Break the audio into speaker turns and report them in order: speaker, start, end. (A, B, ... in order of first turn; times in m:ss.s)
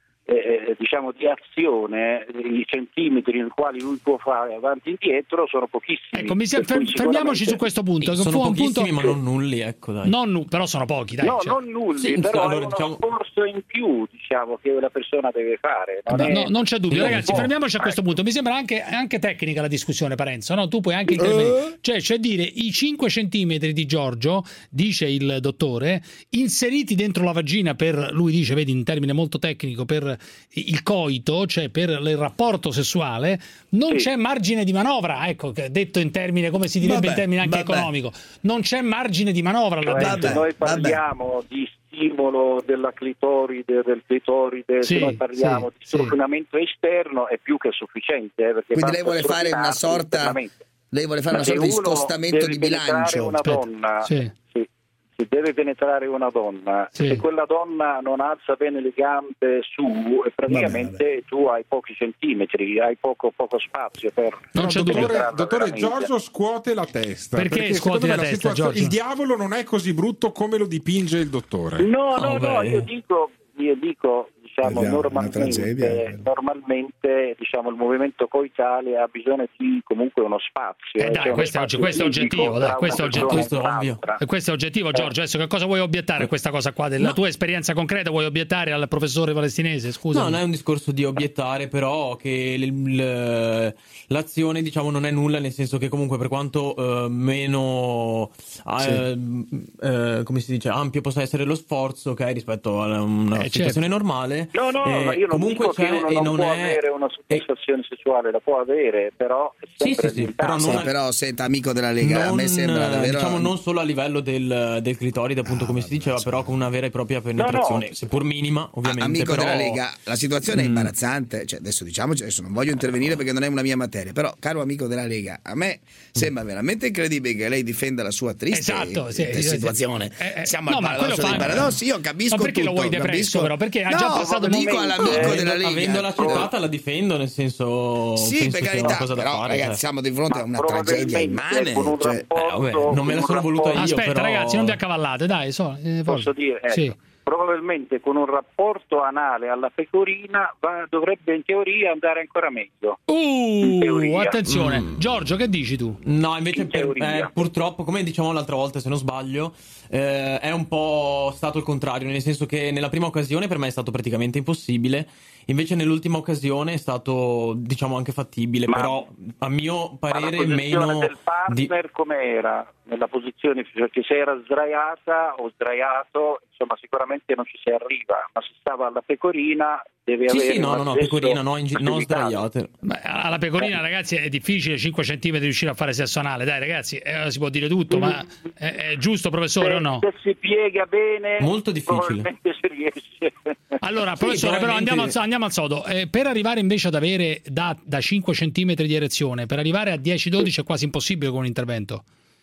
0:00.3-0:07.6 A
0:06.1-0:09.2 B
0:08.0-0:10.2 C
0:10.0-0:11.6 B
0:11.2-0:17.4 A
0:12.0-0:13.0 C
0:16.1-0:18.0 C
0:16.2-0:40.4 B
0:36.8-0:37.9 D
0:39.8-0:50.6 A
0:40.0-0:41.0 D
0:44.8-0:46.1 B
0:48.7-0:50.4 D
0:50.9-0:53.4 D
0:51.3-1:06.1 A
0:53.4-0:54.3 B
0:56.9-0:57.2 B
1:00.5-1:01.0 D
1:04.6-1:05.2 B
1:04.6-1:11.9 E
1:07.4-1:09.0 B
1:11.8-1:24.2 A
1:12.1-1:12.9 C
1:14.6-1:16.2 D
1:21.0-1:23.5 B
1:22.8-1:24.0 C
1:24.2-1:30.4 B
1:30.1-1:47.4 C
1:43.3-1:43.8 B
1:44.5-1:50.8 A
1:49.8-1:50.9 C
1:50.6-1:53.5 D
1:52.0-1:59.8 C
1:55.5-1:56.5 D
1:57.4-1:57.9 A
1:58.9-2:16.5 D
2:00.5-2:00.9 C
2:08.5-2:11.8 B
2:11.4-2:11.6 C
2:12.3-2:15.3 B
2:14.5-2:15.2 A
2:15.0-2:19.8 C
2:15.9-2:16.4 A
2:18.2-2:22.3 D
2:20.3-2:23.8 A
2:22.3-2:24.8 C
2:23.8-2:26.9 B
2:26.0-2:33.0 A
2:33.1-2:36.0 B
2:33.6-2:34.4 A
2:34.5-2:35.0 C
2:36.0-2:51.7 C
2:36.5-2:37.3 A
2:48.7-2:49.1 A
2:50.1-3:02.4 A
3:00.3-3:02.7 C
3:02.8-3:10.0 B
3:07.9-3:08.2 A
3:09.6-3:13.5 A
3:11.4-3:12.3 C
3:13.8-3:22.0 B
3:14.2-3:15.2 C